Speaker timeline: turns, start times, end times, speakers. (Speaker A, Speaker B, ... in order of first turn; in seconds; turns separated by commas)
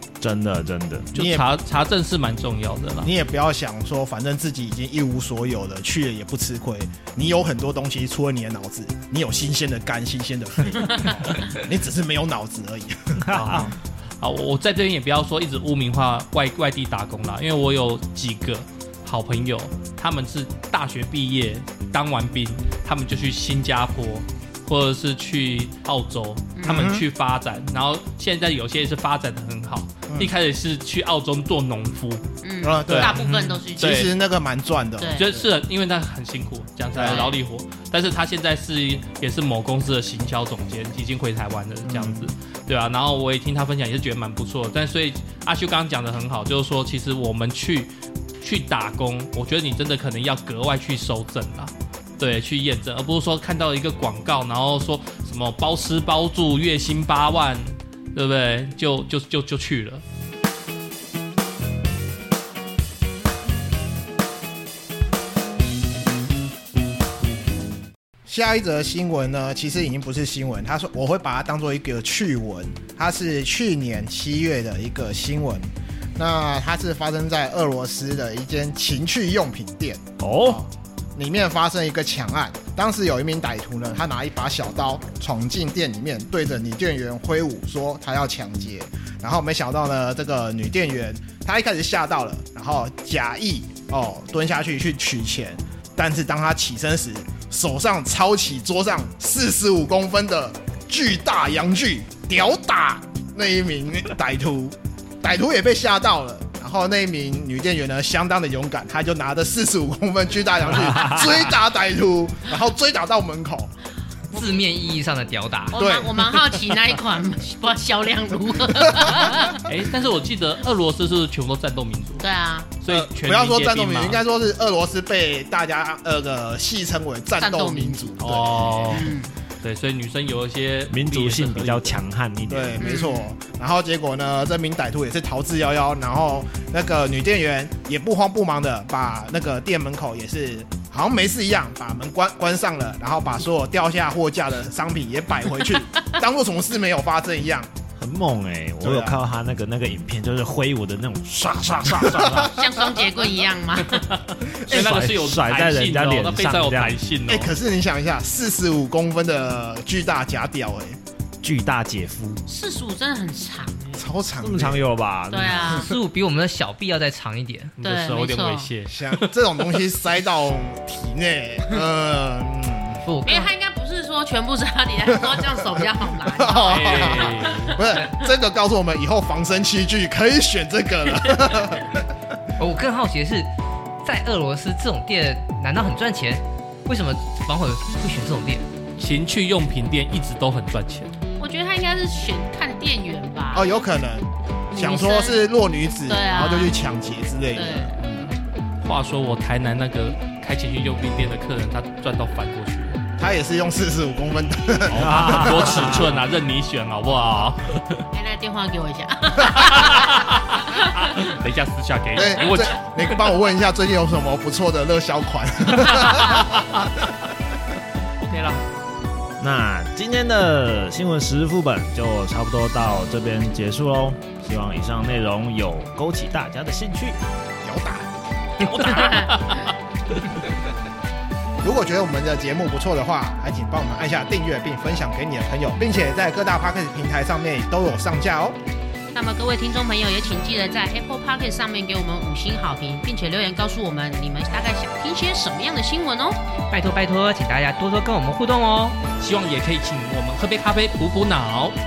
Speaker A: 0.2-1.1, Speaker B: 1.1-3.1, Speaker C: 1.1-1.5, Speaker C: 3.0-13.7, Speaker B: 10.9-11.3, Speaker A: 13.2-13.7, Speaker B: 13.3-32.3, Speaker D: 26.6-26.9, Speaker C: 26.6-27.0, Speaker D: 32.4-34.1, Speaker C: 32.6-35.5, Speaker B: 32.9-34.1, Speaker D: 35.0-35.3, Speaker B: 35.2-60.0, Speaker C: 36.9-37.3, Speaker D: 37.0-37.4, Speaker C: 41.8-42.3, Speaker C: 68.3-113.7, Speaker A: 80.2-80.6, Speaker A: 110.9-111.3, Speaker E: 114.3-115.8, Speaker D: 115.7-119.6, Speaker C: 115.8-116.6, Speaker C: 119.0-119.5, Speaker B: 119.7-122.2, Speaker D: 122.2-122.7, Speaker B: 122.8-124.2, Speaker C: 122.9-129.1, Speaker D: 127.4-128.1, Speaker B: 128.2-132.0, Speaker D: 128.9-129.4, Speaker A: 130.9-133.0, Speaker C: 132.5-147.7, Speaker D: 132.8-133.3, Speaker A: 147.9-152.5, Speaker C: 148.8-149.2, Speaker C: 152.0-152.5, Speaker D: 152.5-154.2, Speaker B: 153.9-157.5, Speaker A: 154.7-157.0, Speaker C: 157.3-161.0, Speaker A: 161.4-162.4, Speaker D: 162.5-164.0, Speaker C: 163.9-164.8, Speaker A: 164.4-165.8, Speaker D: 165.3-165.9, Speaker C: 165.5-165.8, Speaker E: 165.7-167.8, Speaker B: 167.8-169.8, Speaker D: 167.8-168.7, Speaker C: 168.9-173.0, Speaker E: 173.0-173.5, Speaker D: 173.2-178.0, Speaker C: 175.1-182.0, Speaker B: 176.7-177.8, Speaker E: 182.6-183.5, Speaker E: 184.0-188.7, Speaker B: 189.0-191.2, Speaker D: 191.4-193.7, Speaker C: 193.5-198.3, Speaker D: 194.7-195.4, Speaker D: 196.1-196.8, Speaker D: 197.5-197.9, Speaker B: 198.8-203.0, Speaker C: 203.2-206.1, Speaker A: 204.9-206.1, Speaker B: 204.9-208.0, Speaker D: 208.1-211.4, Speaker B: 209.5-213.3, Speaker C: 212.1-216.7, Speaker B: 215.8-216.6, Speaker B: 218.2-218.6, Speaker A: 219.4-227.2, Speaker C: 227.6-228.1, Speaker B: 228.6-229.7, Speaker D: 228.7-229.7, Speaker C: 231.6-238.6, Speaker D: 239.1-246.4, Speaker E: 246.7-249.0, Speaker B: 249.2-251.8